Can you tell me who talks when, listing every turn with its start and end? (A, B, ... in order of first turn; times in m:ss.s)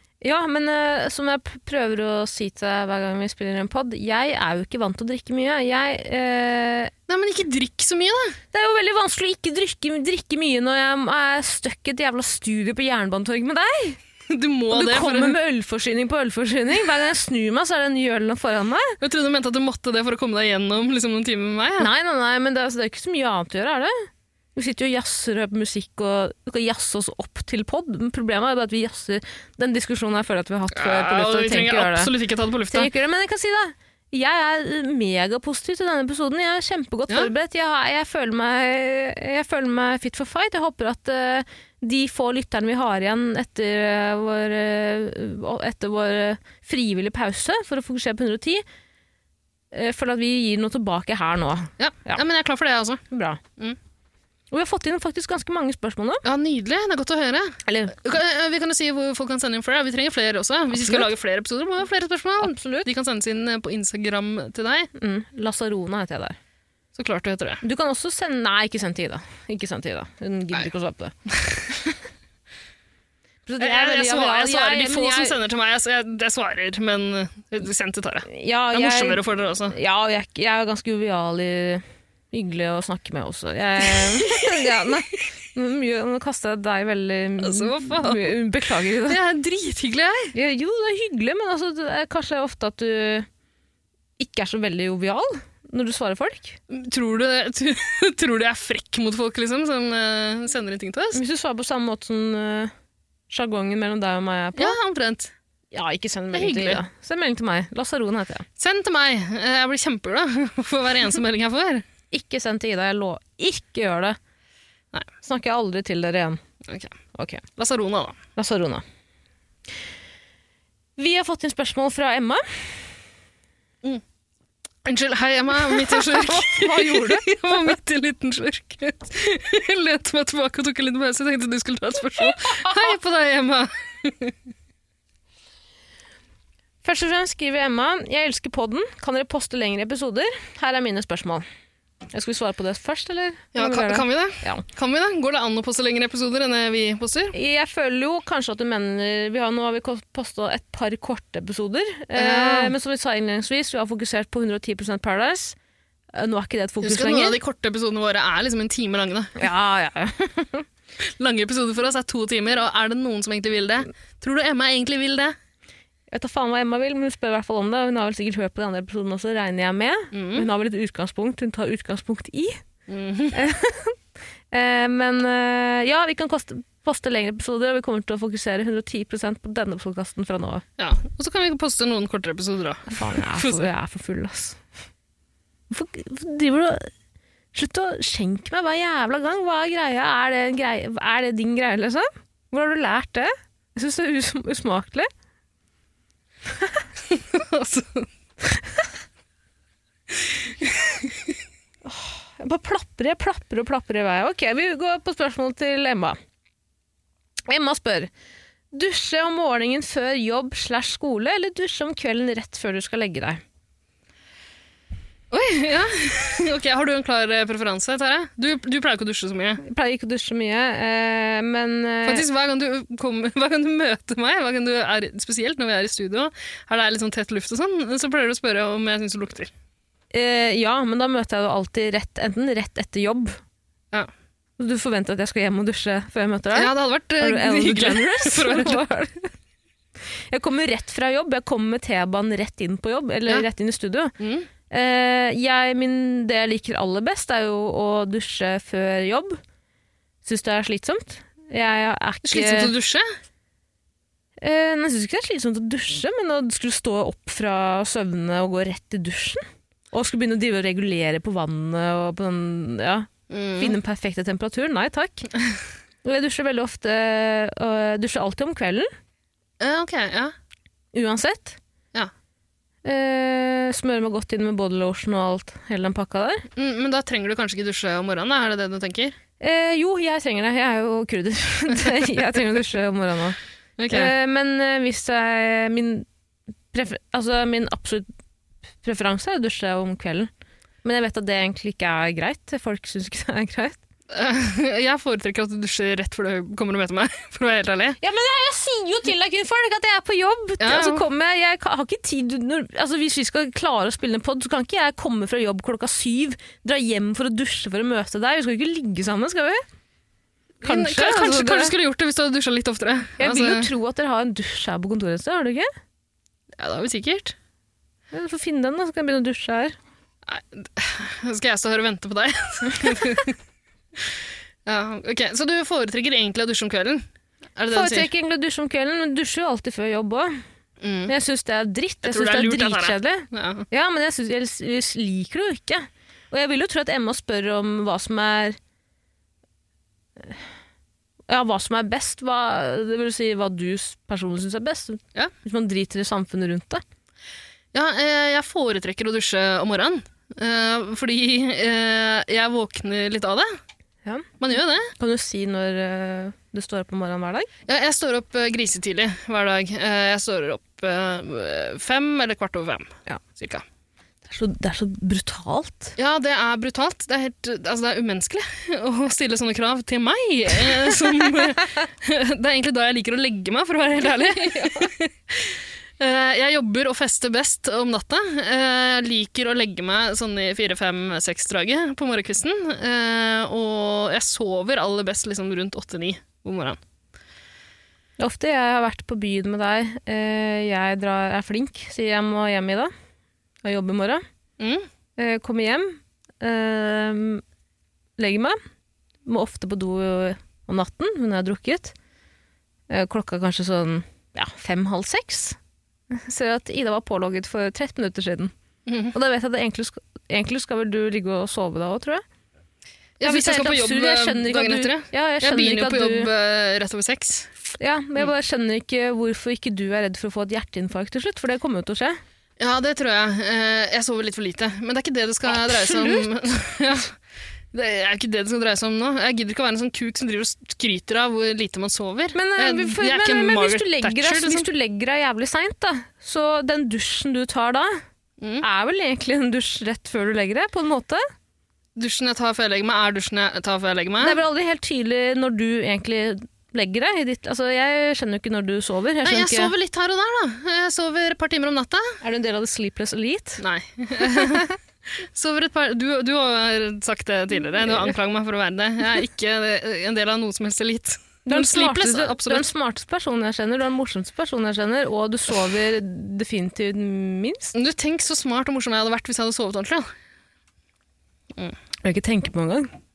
0:00.2-0:06.9 A
0:07.1-0:08.4 B
0:08.5-0:14.0 A
0:14.3-0:15.4 B
0:14.7-0:19.0 A
0:19.0-0:21.9 B
0:21.8-0:32.1 A
0:30.7-0:32.9 B
0:32.7-0:48.6 A
0:49.7-0:52.2 A
0:51.8-0:53.0 B
0:53.1-0:53.4 A
0:54.5-0:56.2 A
0:56.2-1:04.9 B
0:57.6-0:58.0 A
1:00.7-1:01.1 A
1:02.4-1:02.9 A
1:04.9-1:06.4 A
1:06.9-1:07.6 B
1:07.6-1:11.1 A
1:11.3-1:11.6 B
1:13.4-1:15.4 A
1:13.6-1:19.7 B
1:18.3-1:29.2 A
1:23.9-1:24.7 B
1:27.4-1:28.4 B
1:29.1-1:30.3 B
1:30.3-1:33.3 A
1:34.2-1:36.6 A
1:36.7-1:41.2 B
1:41.1-1:42.7 A
1:43.3-1:44.8 A
1:44.6-1:45.3 B
1:45.7-1:48.4 A
1:46.3-1:46.8 B
1:48.6-1:51.8 B
1:52.1-1:54.2 A
1:55.2-1:56.4 A
1:56.6-1:56.9 B
1:57.1-1:57.4 A
1:57.6-1:58.2 B
1:58.4-1:58.8 A
2:01.0-2:02.7 A
2:04.8-2:14.3 B
2:05.9-2:07.2 A
2:12.5-2:12.8 A
2:16.8-2:21.4 A
2:22.1-2:24.6 A
2:23.5-2:27.3 B
2:27.3-2:35.6 A
2:32.2-2:32.7 B
2:36.1-2:37.4 A
2:36.8-2:39.4 B
2:39.4-2:40.6 A
2:41.0-2:45.3 B
2:46.1-2:52.6 A
2:50.1-2:50.5 B
2:52.9-2:53.3 B
2:53.3-2:54.0 A
2:54.5-3:00.6 A
3:00.8-3:03.7 B
3:02.9-3:04.6 A
3:05.7-3:06.9 A
3:07.5-3:15.1 A
3:17.1-3:18.1 B
3:18.5-3:18.8 A
3:20.6-3:21.0 B
3:21.8-3:26.2 A
3:27.5-3:28.1 A
3:28.7-3:33.4 A
3:35.3-3:39.6 B
3:39.6-3:42.2 A
3:42.0-3:49.5 B
3:50.1-3:53.4 A
3:54.6-3:59.3 A
3:56.5-3:58.8 B
4:00.3-4:04.1 A
4:04.2-4:04.5 B
4:04.7-4:09.4 A
4:10.2-4:12.7 A
4:12.3-4:13.1 B
4:14.4-4:25.3 A
4:23.3-4:23.8 B
4:26.0-4:28.9 A
4:29.6-4:30.3 B
4:30.9-4:31.6 A
4:32.8-4:36.5 A
4:36.6-4:39.1 B
4:39.4-4:43.4 A
4:43.8-4:44.1 B
4:43.9-4:46.1 A
4:46.7-4:48.1 A
4:48.8-4:50.3 A
4:50.8-4:53.8 A
4:54.1-4:58.0 B
4:58.0-5:09.6 A
5:00.6-5:01.0 B
5:10.6-5:13.7 B
5:10.6-5:11.7 A
5:13.2-5:15.7 A
5:16.6-5:17.3 B
5:18.1-5:19.8 A
5:20.3-5:23.4 B
5:24.6-5:27.0 B
5:27.6-5:28.1 B
5:27.7-5:30.4 A
5:30.8-5:31.1 B
5:31.1-5:38.6 A
5:32.0-5:33.7 B
5:41.3-5:46.8 A
5:47.7-5:53.5 B
5:54.4-5:54.9 B
5:55.0-5:57.5 A
5:57.7-6:03.6 B
6:04.3-6:05.9 A
6:06.0-6:26.8 B
6:14.3-6:14.9 A
6:28.2-6:32.9 A
6:33.6-6:34.2 A
6:34.6-6:34.9 B
6:35.2-6:37.4 A
6:38.2-6:38.6 A
6:39.2-6:41.9 A
6:42.9-6:45.6 A
6:46.1-6:48.5 A
6:48.8-6:49.1 B
6:49.1-6:52.2 A
6:53.2-6:57.5 B
6:53.2-6:56.3 A
6:57.8-7:02.2 A
7:02.6-7:07.2 B
7:05.5-7:06.2 A
7:07.7-7:14.7 B
7:12.3-7:18.0 A
7:18.4-7:18.6 B
7:18.6-7:21.2 A
7:22.0-7:24.4 B
7:24.2-7:29.7 A
7:29.2-7:32.2 B
7:32.2-7:33.6 A
7:33.6-7:34.7 B
7:34.2-7:34.7 A
7:35.2-7:42.7 B
7:41.5-7:47.7 A
7:47.7-7:50.1 B
7:52.0-7:52.9 A